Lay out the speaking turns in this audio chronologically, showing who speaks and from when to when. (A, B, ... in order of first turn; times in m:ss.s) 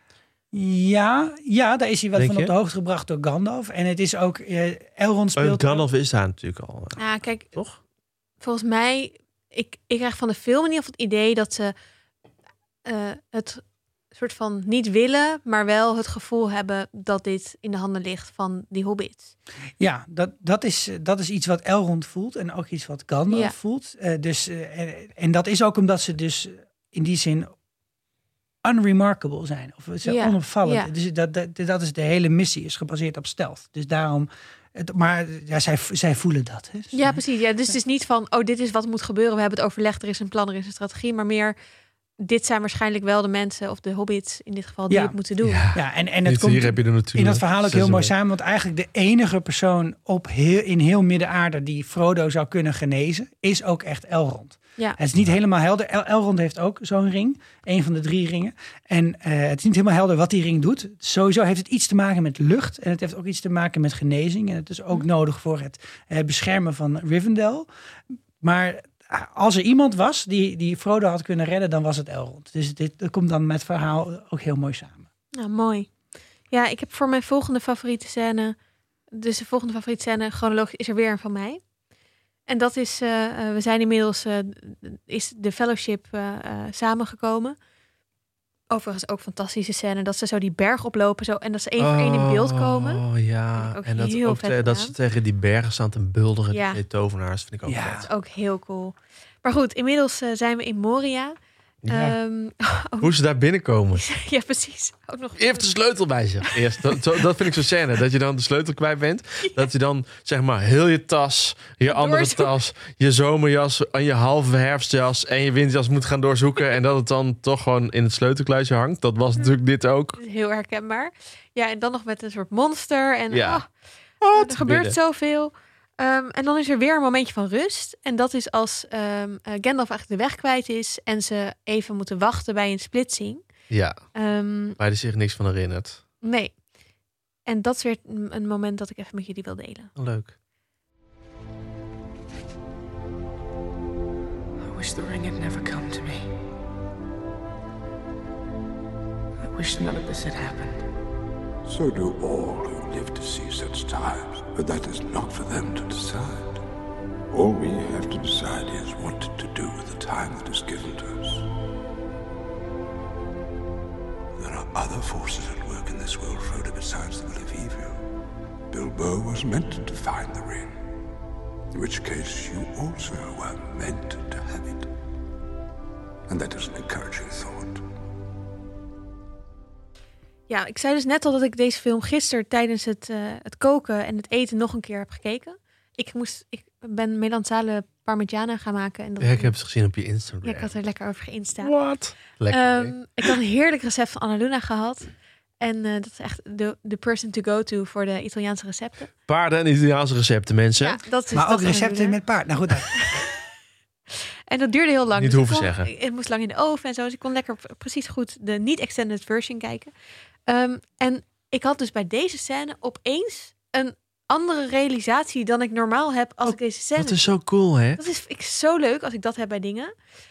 0:00.5-0:05.8 A
0:02.2-0:02.5 B
0:05.4-0:07.8 B
0:07.0-0:07.5 C
0:08.4-0:11.7 C
0:12.8-0:19.3 C
0:19.8-0:27.5 A
0:23.3-0:23.5 C
0:28.6-0:37.2 A
0:30.0-0:30.9 C
0:36.9-0:41.5 C
0:42.2-0:45.6 C
0:44.9-0:45.1 A
0:45.4-0:48.1 B
0:45.7-1:07.7 A
1:08.4-1:15.0 A
1:15.3-1:15.9 C
1:16.5-1:18.6 C
1:19.1-1:21.6 C
1:22.5-1:27.6 C
1:28.7-1:33.0 C
1:31.8-1:38.0 B
1:33.6-1:34.9 C
1:36.5-1:36.8 C
1:37.6-1:38.1 A
1:38.0-1:41.3 C
1:41.8-1:42.1 B
1:41.9-1:43.1 C
1:43.0-1:44.0 B
1:43.9-1:45.8 C
1:45.4-2:00.2 B
1:51.8-1:52.5 C
2:00.2-2:13.5 C
2:03.3-2:03.6 B
2:04.2-2:05.0 B
2:13.7-2:14.1 B
2:14.1-2:14.8 C
2:14.7-2:16.0 B
2:16.2-2:16.6 C
2:17.4-2:19.9 C
2:20.0-2:20.3 B
2:24.6-2:26.3 D
2:29.4-2:30.8 D
2:31.6-2:36.6 E
2:37.3-2:41.5 E
2:44.4-2:48.0 E
2:48.7-2:50.8 E
2:51.7-2:54.9 E
2:56.3-2:57.8 E
3:00.5-3:09.5 C
3:09.2-3:10.8 B
3:10.4-3:11.8 C
3:11.6-3:13.3 B
3:12.5-3:19.1 C
3:19.3-3:21.0 B
3:20.8-3:22.2 C
3:21.3-3:23.0 A
3:24.5-3:29.9 C
3:25.2-3:25.9 B
3:30.5-3:37.3 C
3:36.4-3:38.0 B
3:38.0-3:39.9 C